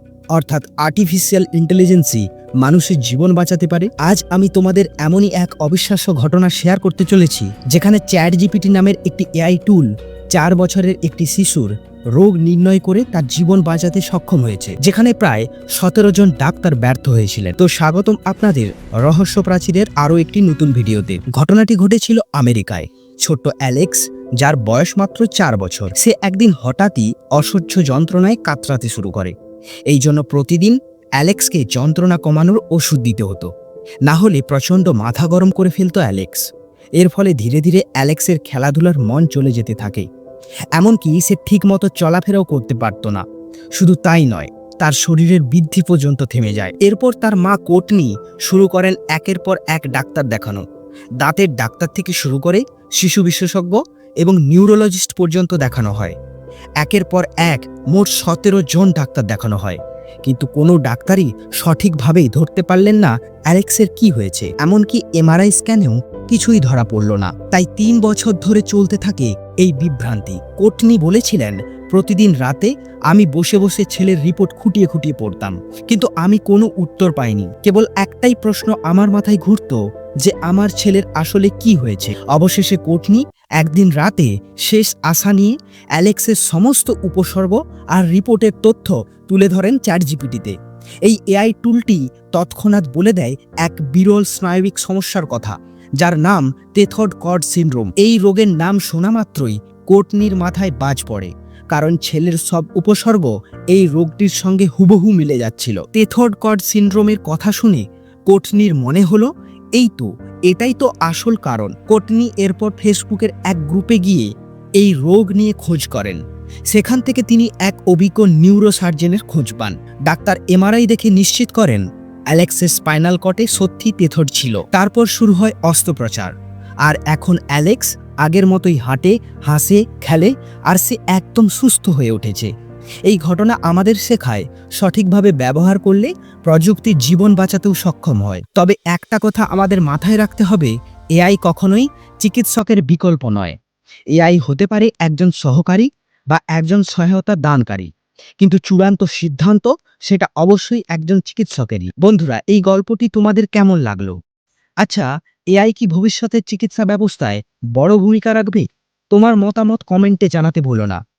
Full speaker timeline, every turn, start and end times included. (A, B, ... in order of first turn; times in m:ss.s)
0:00.4-0:29.3 A
0:29.9-0:33.5 A
0:34.1-0:36.4 A
0:37.0-0:40.1 A
0:40.8-0:43.2 A
0:43.8-0:50.6 A
0:51.2-0:56.2 A
0:56.8-1:54.3 A
1:54.8-2:06.3 A
2:06.8-2:12.5 A
2:13.1-2:23.6 A
2:24.2-2:27.9 A
2:28.4-2:34.2 A
2:34.8-2:41.0 A